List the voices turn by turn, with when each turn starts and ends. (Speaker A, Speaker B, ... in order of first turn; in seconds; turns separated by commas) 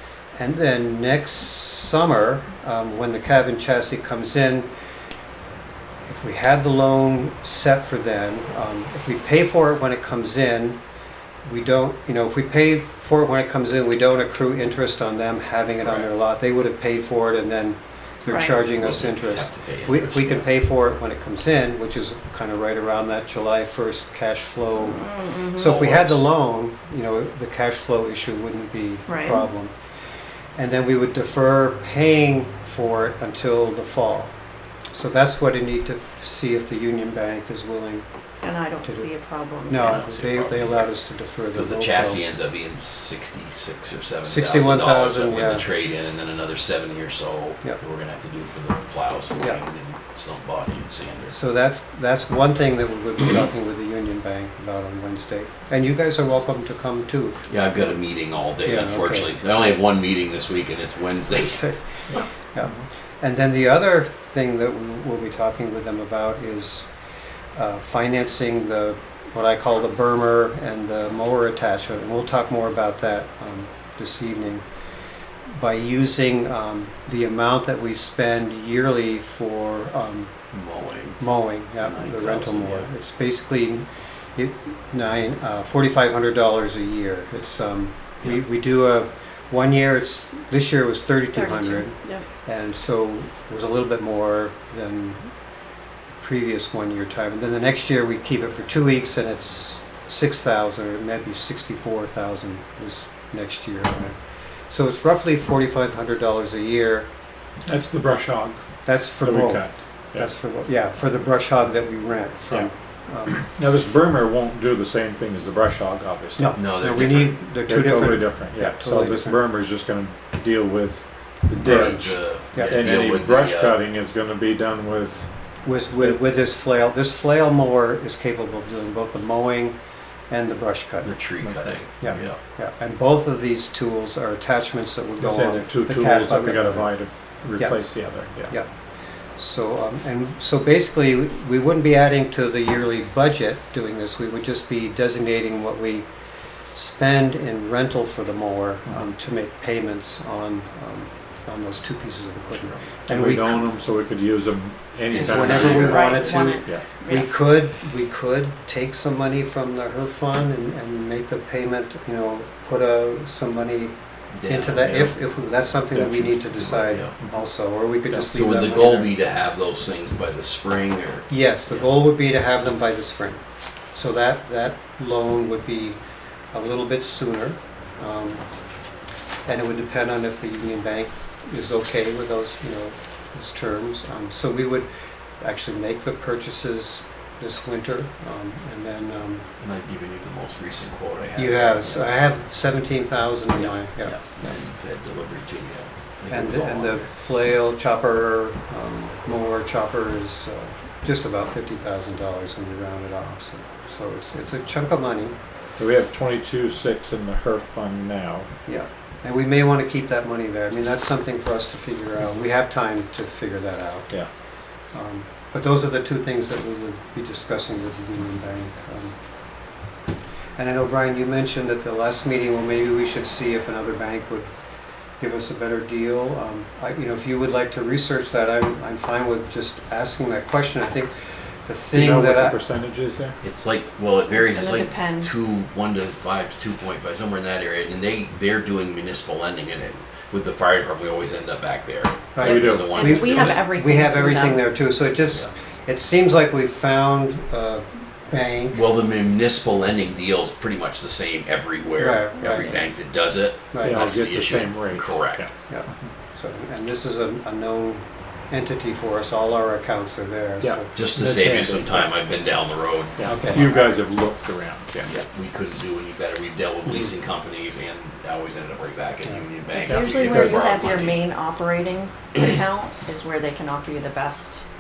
Speaker A: 0.4-4.7, Speaker A: 6.1-10.8, Speaker A: 11.4-29.7, Speaker B: 15.8-16.1, Speaker C: 18.2-18.6, Speaker B: 18.7-20.5, Speaker C: 24.8-25.7, Speaker B: 25.6-26.2, Speaker C: 29.1-29.5, Speaker A: 30.6-34.3, Speaker A: 34.9-38.0, Speaker C: 38.4-40.0, Speaker A: 38.8-39.1, Speaker A: 39.7-42.2, Speaker B: 39.8-40.9, Speaker B: 41.5-51.4, Speaker A: 44.2-45.7, Speaker A: 51.3-57.9, Speaker B: 57.5-61.7, Speaker A: 58.6-59.3, Speaker A: 61.3-66.9, Speaker A: 67.5-74.6, Speaker A: 75.5-80.3, Speaker B: 80.5-81.2, Speaker A: 81.2-95.3, Speaker B: 81.8-82.9, Speaker C: 91.3-92.3, Speaker A: 96.2-104.2, Speaker A: 104.7-107.1, Speaker D: 107.7-108.6, Speaker A: 108.8-113.5, Speaker D: 109.2-110.3, Speaker D: 113.5-116.6, Speaker A: 116.4-119.4, Speaker B: 116.6-117.4, Speaker D: 117.7-122.2, Speaker B: 121.6-123.8, Speaker A: 121.6-122.8, Speaker D: 122.7-125.3, Speaker A: 125.6-129.8, Speaker A: 130.3-131.2, Speaker B: 131.0-132.4, Speaker D: 131.4-132.2, Speaker A: 132.0-136.9, Speaker D: 135.2-138.6, Speaker A: 137.6-137.8, Speaker A: 139.4-146.1, Speaker A: 146.8-153.7, Speaker B: 152.6-153.0, Speaker D: 153.1-156.1, Speaker B: 155.1-156.5, Speaker A: 155.2-163.9, Speaker C: 155.6-157.3, Speaker B: 164.3-165.2, Speaker A: 164.5-169.1, Speaker D: 165.9-167.5, Speaker B: 166.8-167.2, Speaker B: 168.3-171.9, Speaker A: 171.3-173.4, Speaker A: 173.9-176.0, Speaker A: 176.5-178.4, Speaker A: 179.5-184.9, Speaker A: 185.4-189.5, Speaker B: 189.6-192.2, Speaker A: 191.4-194.6, Speaker B: 193.5-197.1, Speaker A: 196.3-205.3, Speaker D: 205.8-208.5, Speaker A: 208.7-214.1, Speaker A: 214.9-219.1, Speaker A: 220.6-224.5, Speaker A: 225.2-231.1, Speaker A: 231.7-232.6, Speaker D: 231.9-233.4, Speaker B: 233.4-243.6, Speaker C: 234.3-235.3, Speaker A: 242.3-248.8, Speaker D: 242.4-243.0, Speaker C: 242.9-244.6, Speaker B: 248.7-255.4, Speaker A: 252.0-252.8, Speaker C: 252.4-252.9, Speaker A: 253.7-254.1, Speaker D: 253.8-255.5, Speaker A: 255.7-260.9, Speaker D: 260.6-262.1, Speaker B: 260.9-263.6, Speaker D: 263.2-265.1, Speaker A: 263.2-263.7, Speaker B: 265.1-271.2, Speaker C: 269.7-274.6, Speaker D: 269.9-270.6